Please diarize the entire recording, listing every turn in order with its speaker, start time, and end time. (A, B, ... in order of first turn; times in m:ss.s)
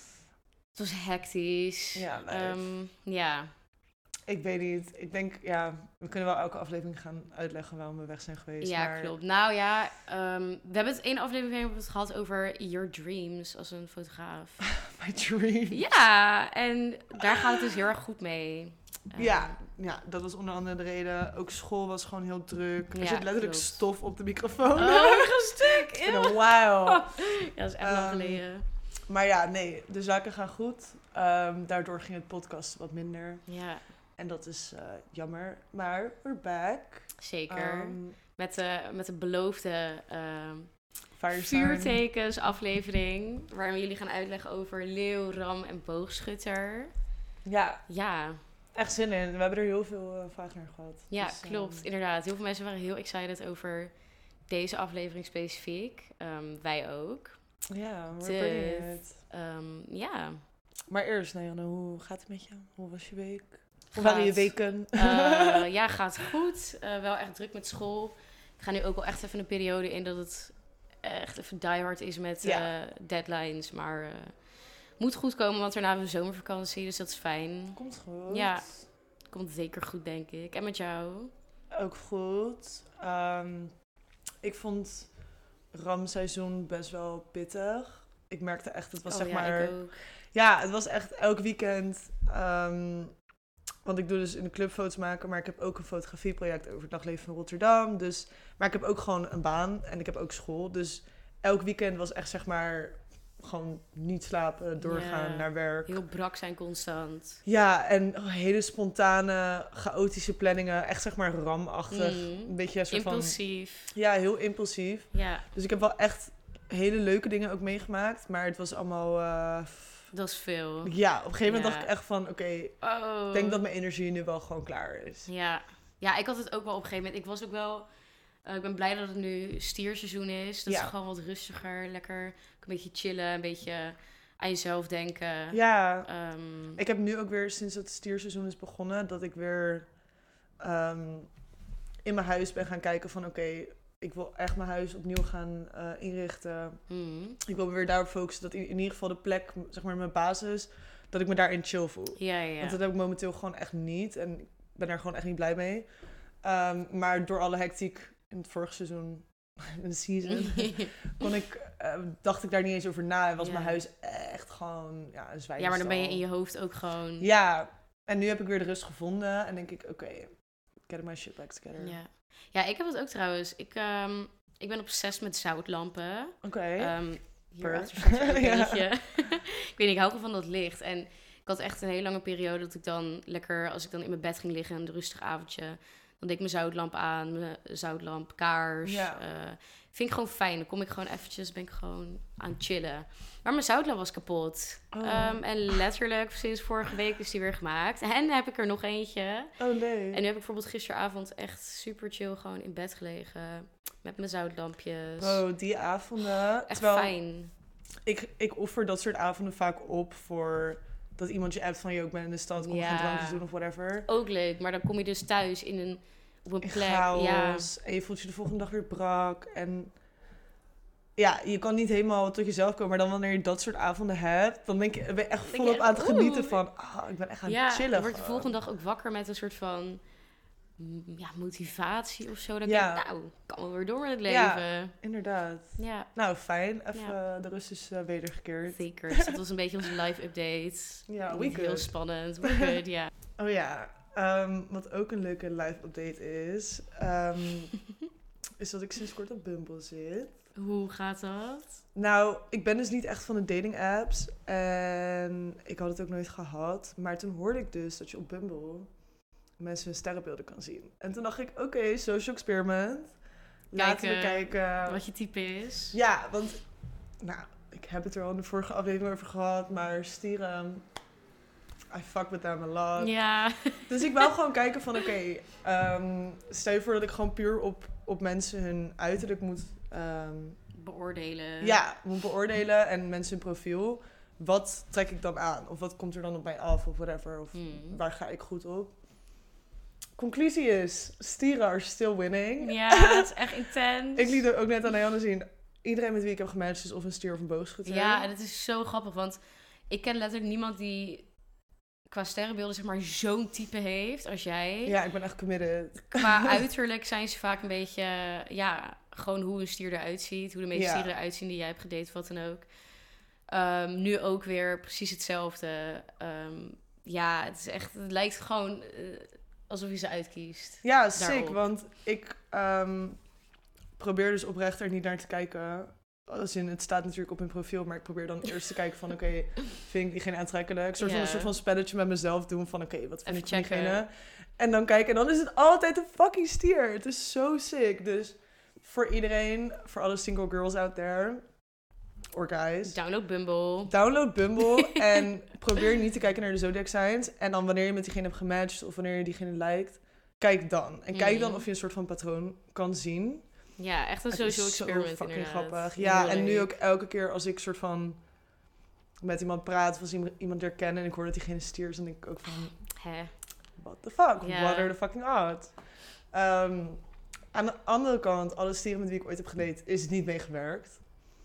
0:00.7-0:03.5 A
0:01.9-0:02.7 B
0:04.3-0:09.2 B
0:08.6-0:14.6 A
0:14.6-0:15.8 B
0:15.7-0:19.6 A
0:17.2-0:17.7 B
0:19.1-0:28.4 B
0:22.9-0:23.8 A
0:24.8-0:28.6 A
0:29.1-0:33.4 B
0:33.5-0:33.8 A
0:34.2-0:38.2 B
0:37.2-0:40.7 A
0:41.2-0:42.0 B
0:41.3-0:46.9 A
0:47.4-0:47.8 B
0:47.9-0:48.4 A
0:48.7-0:51.8 B
0:51.1-0:53.9 A
0:54.5-0:57.4 A
0:57.7-0:59.1 B
0:58.2-1:00.4 A
1:00.9-1:05.7 B
1:03.9-1:14.4 A
1:12.4-1:12.7 B
1:15.0-1:18.8 A
1:17.7-1:18.6 B
1:19.3-1:21.3 A
1:21.7-1:23.7 B
1:24.4-1:25.1 B
1:25.7-1:29.8 B
1:29.1-1:30.0 A
1:30.3-1:33.1 B
1:33.8-1:46.0 B
1:44.8-1:47.4 A
1:47.4-1:53.4 B
1:51.9-1:53.9 A
1:53.9-2:00.1 B
1:55.1-1:55.4 A
2:00.1-2:01.9 A
2:00.8-2:02.8 B
2:02.8-2:03.6 A
2:03.3-2:05.3 B
2:05.2-2:07.8 A
2:08.4-2:16.8 A
2:10.7-2:10.9 B
2:15.5-2:16.1 B
2:16.8-2:19.9 B
2:20.6-2:21.3 B
2:22.0-2:26.8 B
2:26.9-2:27.4 A
2:27.4-2:35.9 B
2:32.2-2:32.8 A
2:36.4-2:46.2 B
2:40.2-2:41.1 A
2:43.4-2:43.8 A
2:45.6-2:47.3 A
2:47.2-2:52.0 B
2:51.8-3:19.6 A
2:56.4-2:57.0 B
2:57.6-2:58.9 B
3:08.8-3:09.2 B
3:14.9-3:15.8 B
3:19.6-3:20.2 B
3:20.1-3:25.4 A
3:25.2-3:27.1 B
3:26.7-3:27.5 A
3:28.0-3:34.1 B
3:32.6-3:33.4 A
3:34.1-3:37.7 A
3:36.6-3:39.9 B
3:41.2-3:48.5 B
3:45.5-3:46.6 A
3:47.4-3:50.0 A
3:50.8-3:54.9 A
3:52.6-3:53.0 B
3:54.3-3:59.4 B
3:55.8-3:56.1 A
3:58.7-4:03.1 A
4:01.1-4:01.9 B
4:02.4-4:02.8 B
4:03.4-4:07.7 B
4:08.6-4:10.4 B
4:10.6-4:11.7 A
4:11.9-4:18.9 B
4:19.6-4:23.1 B
4:23.7-4:25.0 B
4:23.8-4:26.0 A
4:25.9-4:26.6 B
4:27.2-4:30.8 B
4:31.9-4:33.1 B
4:33.0-4:34.3 A
4:33.9-4:40.6 B
4:40.7-4:41.8 A
4:41.6-4:48.9 B
4:47.5-4:48.0 A
4:50.2-4:53.3 B
4:52.6-4:54.4 A
4:54.1-4:58.3 B
4:57.8-5:01.2 A
5:02.1-5:04.9 A
5:04.8-5:06.6 B
5:06.1-5:12.6 A
5:10.7-5:11.1 B
5:13.5-5:21.6 A
5:20.8-5:23.2 B
5:24.0-5:41.5 B
5:31.0-5:31.5 A
5:33.2-5:34.0 A
5:42.3-5:43.0 B
5:42.9-5:43.9 A
5:43.9-5:53.4 B
5:44.6-5:45.2 A
5:51.1-5:51.6 A
5:53.8-5:56.7 A
5:54.3-5:58.2 B
5:59.2-6:02.8 B
6:02.9-6:03.3 A
6:03.8-6:05.8 B
6:04.4-6:04.9 A
6:06.3-6:11.0 B